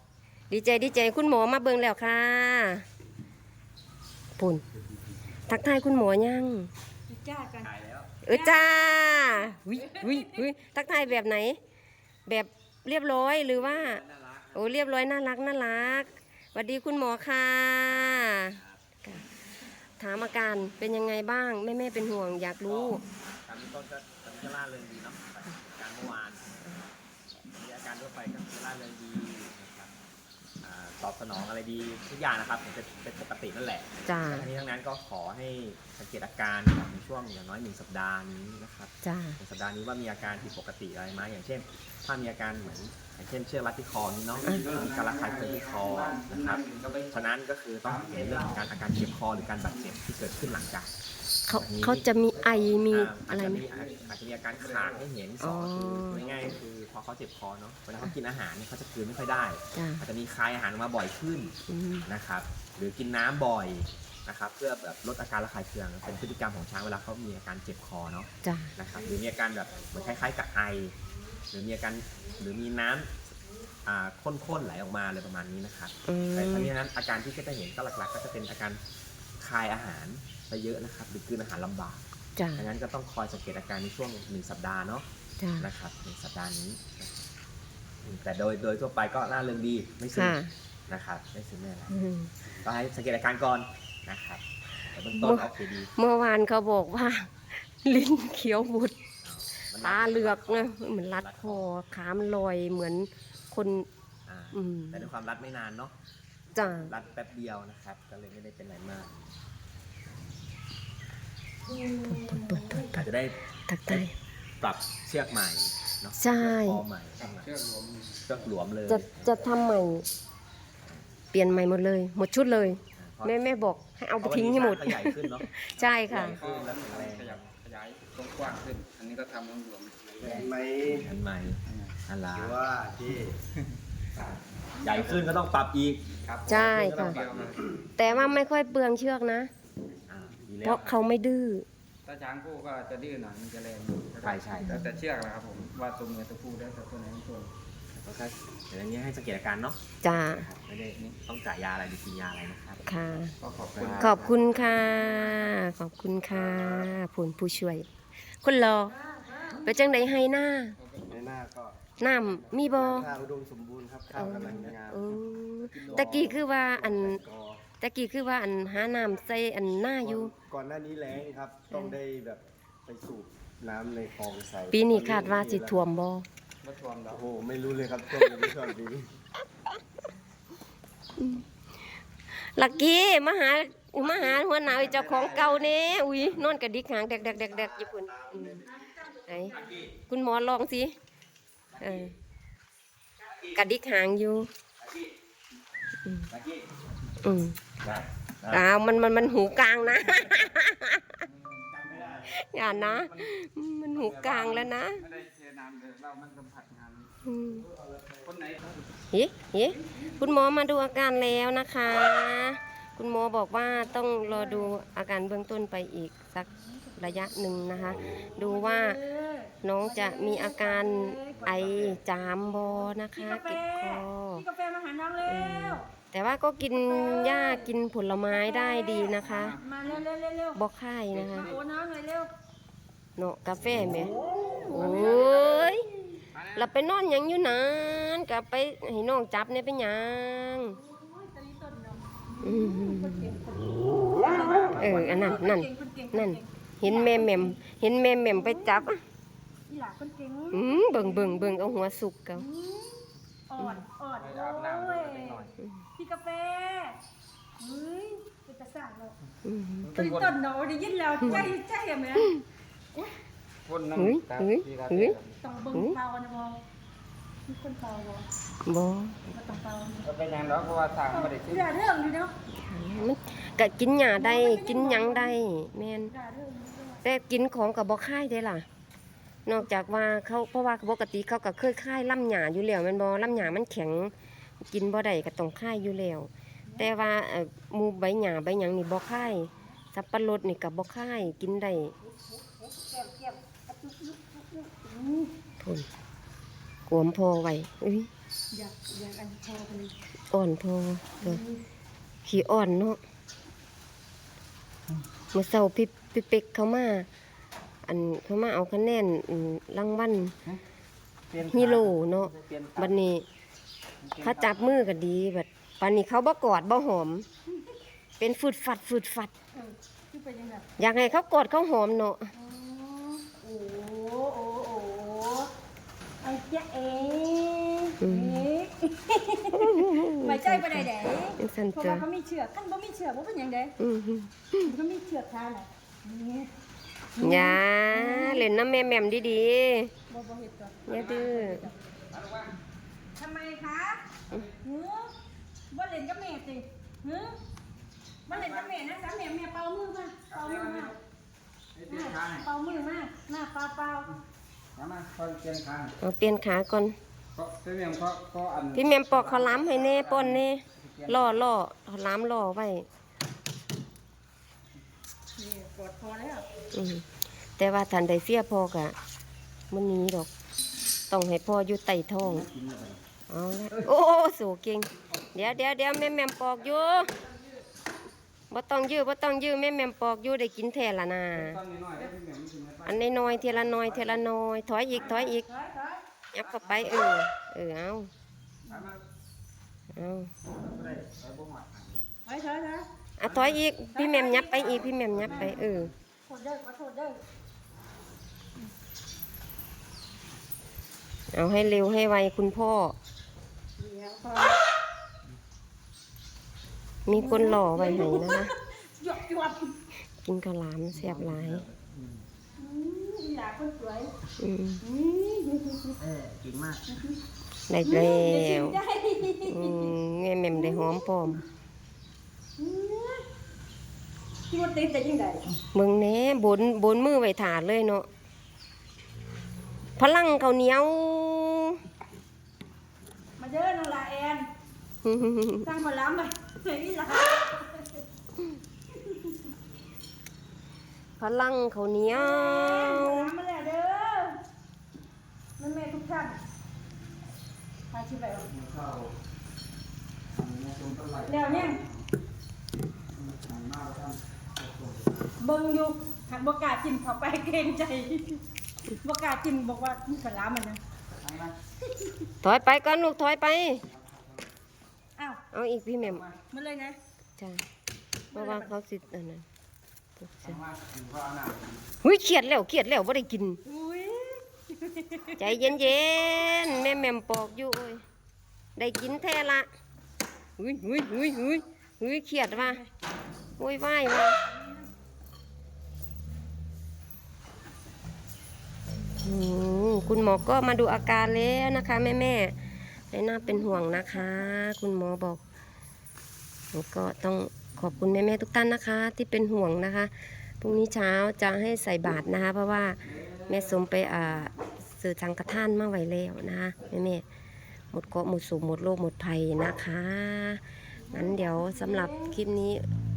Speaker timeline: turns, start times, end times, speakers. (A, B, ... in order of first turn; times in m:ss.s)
0:00.5-0:02.8 A
0:04.4-0:04.6 A
0:05.5-0:06.7 A
0:07.1-0:07.7 B
0:07.7-0:08.1 C
0:08.2-0:11.6 A
0:08.3-0:10.4 B
0:12.2-0:14.0 A
0:13.8-0:14.6 C
0:14.5-0:19.2 A
0:20.0-0:23.0 A
0:22.6-0:26.7 C
0:27.4-0:29.9 C
0:30.6-0:50.9 C
0:34.0-0:34.5 A
0:39.0-0:39.4 A
0:44.3-0:47.3 D
0:47.8-0:48.6 D
0:49.6-0:49.9 D
0:51.5-0:53.6 A
0:51.5-0:52.1 C
0:52.4-0:52.8 D
0:52.9-1:10.9 C
0:53.6-0:55.0 D
0:55.4-0:56.2 A
0:56.1-0:56.5 D
0:59.7-1:00.0 A
1:01.7-1:02.1 A
1:08.4-1:08.7 A
1:11.5-1:13.2 C
1:13.8-1:18.8 C
1:16.1-1:16.7 A
1:19.4-1:22.0 C
1:22.4-1:22.6 A
1:22.6-1:25.0 C
1:25.4-1:25.6 A
1:25.6-1:27.2 C
1:28.0-1:32.0 C
1:30.1-1:30.5 A
1:31.9-1:32.3 A
1:32.6-1:35.9 C
1:35.1-1:39.0 A
1:39.2-1:41.7 C
1:39.7-1:43.9 A
1:44.3-1:45.9 C
1:44.5-1:45.1 A
1:46.5-1:46.9 A
1:46.7-1:49.3 C
1:51.7-1:52.8 B
1:52.1-1:53.0 A
1:52.8-1:53.4 C
1:53.7-1:54.1 A
1:54.6-1:57.5 C
1:56.2-1:56.8 A
1:57.2-1:58.5 D
1:58.3-1:59.1 C
1:58.9-2:00.0 A
2:01.3-2:06.4 A
2:03.0-2:03.3 C
2:04.2-2:07.5 C
2:06.1-2:10.5 D
2:10.2-2:11.1 E
2:11.0-2:12.6 C
2:11.6-2:12.0 D
2:12.3-2:13.4 E
2:14.8-2:17.6 C
2:16.2-2:17.6 D
2:16.5-2:17.2 A
2:18.0-2:19.5 A
2:20.1-2:21.0 C
2:20.6-2:21.6 A
2:22.0-2:27.5 D
2:24.2-2:24.8 C
2:27.9-2:32.8 C
2:30.0-2:30.5 A
2:32.9-2:33.3 A
2:33.4-2:34.3 D
2:33.8-2:34.0 E
2:33.8-2:34.2 C
2:34.0-2:37.9 A
2:36.3-2:36.9 E
2:38.4-2:39.0 A
2:38.9-2:39.7 B
2:39.6-2:40.7 A
2:40.8-2:41.2 D
2:41.1-2:41.8 E
2:42.0-2:43.1 A
2:42.5-2:45.0 E
2:44.1-2:47.2 A
2:45.6-2:47.6 E
2:45.8-2:46.2 D
2:47.8-2:50.3 A
2:50.0-2:55.8 E
2:51.7-2:52.0 A
2:54.7-2:56.2 A
2:56.6-2:57.2 D
2:57.1-2:59.1 E
3:01.2-3:01.4 A
3:02.3-3:08.6 A
3:08.5-3:09.8 B
3:09.3-3:10.9 A
3:11.8-3:12.1 A
3:13.5-3:14.5 A
3:16.3-3:16.6 C
3:17.2-3:17.6 A
3:17.8-3:18.6 C
3:18.5-3:21.2 A
3:21.3-3:22.1 D
3:21.8-3:22.2 C
3:22.1-3:25.0 A
3:22.8-3:23.3 D
3:23.8-3:27.1 D
3:27.2-3:27.6 A
3:28.2-3:28.7 D
3:29.1-3:39.0 A
3:29.9-3:30.1 B
3:34.0-3:34.7 B
3:36.4-3:37.3 B
3:38.0-3:41.7 B
3:39.6-3:44.4 A
3:41.6-3:42.0 C
3:43.1-3:45.9 B
3:45.3-3:49.6 A
3:46.7-3:47.7 B
3:48.3-3:50.6 B
3:49.2-3:50.0 D
3:50.5-3:51.5 A
3:51.1-3:51.6 D
3:51.3-3:52.3 B
3:53.2-3:54.1 A
3:54.3-3:55.4 B
3:54.7-3:55.8 A
3:54.8-3:55.6 D
3:56.3-3:56.7 D
3:56.5-4:00.8 A
4:00.7-4:07.6 B
4:02.4-4:03.2 A
4:04.2-4:05.4 D
4:04.7-4:09.0 A
4:08.2-4:08.9 B
4:09.7-4:11.5 B
4:10.5-4:12.4 A
4:12.3-4:15.4 B
4:14.2-4:15.5 D
4:16.0-4:17.0 B
4:17.6-4:19.2 B
4:19.4-4:20.2 A
4:19.8-4:20.4 D
4:19.9-4:22.4 B
4:21.2-4:21.5 A
4:21.2-4:21.5 D
4:23.6-4:25.4 D
4:23.9-4:25.1 A
4:25.4-4:26.6 B
4:27.5-4:28.3 B
4:28.6-4:29.2 A
4:29.3-4:30.1 B
4:30.0-4:31.7 D
4:31.1-4:32.3 B
4:32.6-4:36.1 A
4:34.2-4:35.3 B
4:36.0-4:37.0 B
4:37.0-4:38.6 A
4:39.4-4:51.9 A
4:52.0-4:55.3 B
4:56.9-4:58.1 A
4:58.5-4:59.9 B
5:00.3-5:01.4 A
5:01.2-5:01.6 B
5:02.2-5:03.0 A
5:05.3-5:07.1 A
5:07.8-5:10.3 A
5:11.3-5:12.9 D
5:11.5-5:13.2 A
5:14.0-5:14.7 D
5:14.2-5:17.2 A
5:18.2-5:19.3 A
5:19.5-5:20.7 B
5:20.8-5:22.3 A
5:22.3-5:25.5 B
5:26.2-5:33.7 B
5:28.0-5:28.4 A
5:29.5-5:32.0 A
5:33.8-5:34.7 A
5:34.6-5:36.5 B
5:37.2-5:38.4 B
5:37.2-5:39.9 A
5:40.1-5:41.8 B
5:40.9-5:41.6 A
5:40.9-5:41.3 D
5:42.1-5:42.5 D
5:43.2-5:45.1 B
5:45.7-5:47.4 B
5:48.3-5:50.9 B
5:48.3-5:48.8 D
5:50.3-5:51.0 D
5:51.7-5:52.5 D
5:51.9-5:54.1 B
5:54.8-5:56.0 D
5:56.0-5:57.0 A
5:57.3-6:01.4 D
5:58.7-6:02.8 A
6:05.4-6:06.5 B
6:06.7-6:07.0 A
6:07.6-6:09.0 A
6:09.7-6:10.3 A
6:11.1-6:12.5 A
6:12.2-6:13.0 D
6:13.3-6:17.1 A
6:18.5-6:21.6 A
6:21.3-6:24.2 D
6:22.8-6:25.4 A
6:25.0-6:26.0 B
6:26.3-6:28.1 A
6:26.4-6:27.0 D
6:28.7-6:29.0 D
6:29.9-6:30.3 A
6:30.6-6:32.0 D
6:32.2-6:32.9 B
6:33.2-6:35.9 A
6:33.2-6:33.6 D
6:33.9-6:35.6 B
6:34.6-6:35.9 D
6:36.2-6:37.2 B
6:41.3-6:43.0 A
6:43.8-6:44.6 B
6:47.0-6:48.5 A
6:47.1-6:49.7 B
6:50.2-6:51.6 A
6:50.9-6:52.2 D
6:52.6-6:54.1 B
6:54.4-6:54.8 A
6:54.8-6:56.0 B
6:56.0-6:56.8 D
6:56.9-6:57.2 B
6:57.7-6:58.8 A
6:57.8-6:59.9 B
6:59.4-7:01.4 A
7:00.5-7:01.0 B
7:02.6-7:03.2 B
7:04.5-7:05.4 B
7:05.7-7:08.1 A
7:10.0-7:11.8 A
7:13.4-7:14.5 B
7:15.0-7:15.7 A
7:15.6-7:18.0 B
7:18.9-7:19.4 B
7:21.2-7:23.3 A
7:22.1-7:24.4 B
7:25.6-7:26.4 B
7:27.9-7:28.5 B
7:28.4-7:29.1 D
7:30.3-7:32.0 D
7:31.2-7:31.8 B
7:33.1-7:35.2 D
7:35.4-7:38.4 B
7:39.0-7:40.8 B
7:41.2-7:41.5 D
7:42.4-7:43.8 A
7:43.9-7:44.4 D
7:45.5-7:46.2 A
7:46.0-7:46.4 D
7:46.5-7:47.0 B
7:48.3-7:48.7 B
7:48.3-7:49.4 A
7:50.2-7:50.6 A
7:50.4-7:51.8 D
7:52.0-7:53.6 A
7:53.6-7:55.7 B
7:55.4-7:58.0 A
7:58.8-7:59.7 A
8:00.6-8:02.8 A
8:02.6-8:02.8 B
8:03.6-8:04.4 A
8:04.5-8:04.9 B
8:09.2-8:12.6 A
8:13.1-8:15.4 A
8:13.4-8:14.5 B
8:16.7-8:27.2 A
8:23.1-8:23.9 D
8:27.9-8:30.6 A
8:31.0-8:32.3 B
8:31.1-8:32.8 A